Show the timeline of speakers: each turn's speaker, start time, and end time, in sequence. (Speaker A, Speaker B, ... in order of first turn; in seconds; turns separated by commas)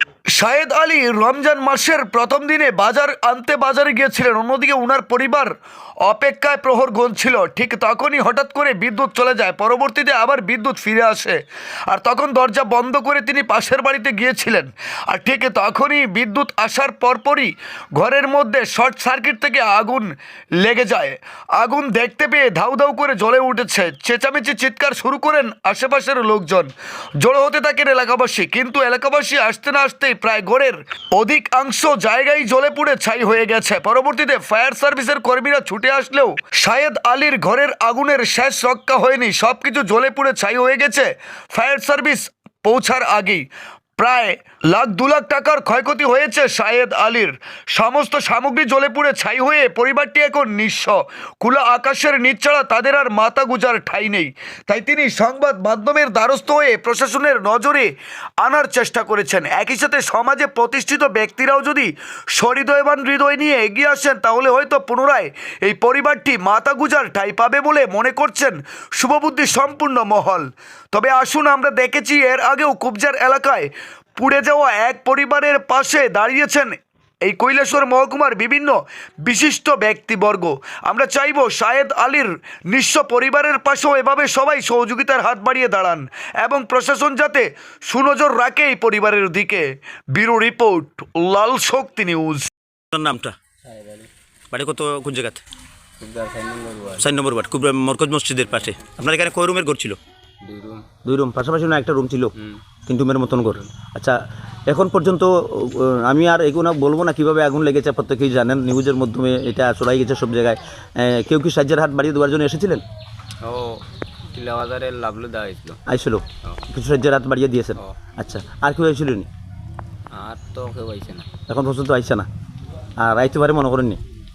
Speaker A: 0.3-43.5, Speaker A: 44.0-57.9, Speaker A: 58.4-92.5, Speaker B: 92.9-93.3, Speaker C: 93.6-94.1, Speaker B: 94.5-95.4, Speaker C: 96.0-97.1, Speaker B: 97.0-100.0, Speaker C: 100.4-100.8, Speaker B: 101.0-102.3, Speaker B: 102.9-112.8, Speaker C: 103.3-103.7, Speaker C: 113.4-115.8, Speaker B: 115.9-119.3, Speaker C: 120.1-121.3, Speaker B: 121.5-122.3, Speaker B: 123.0-124.0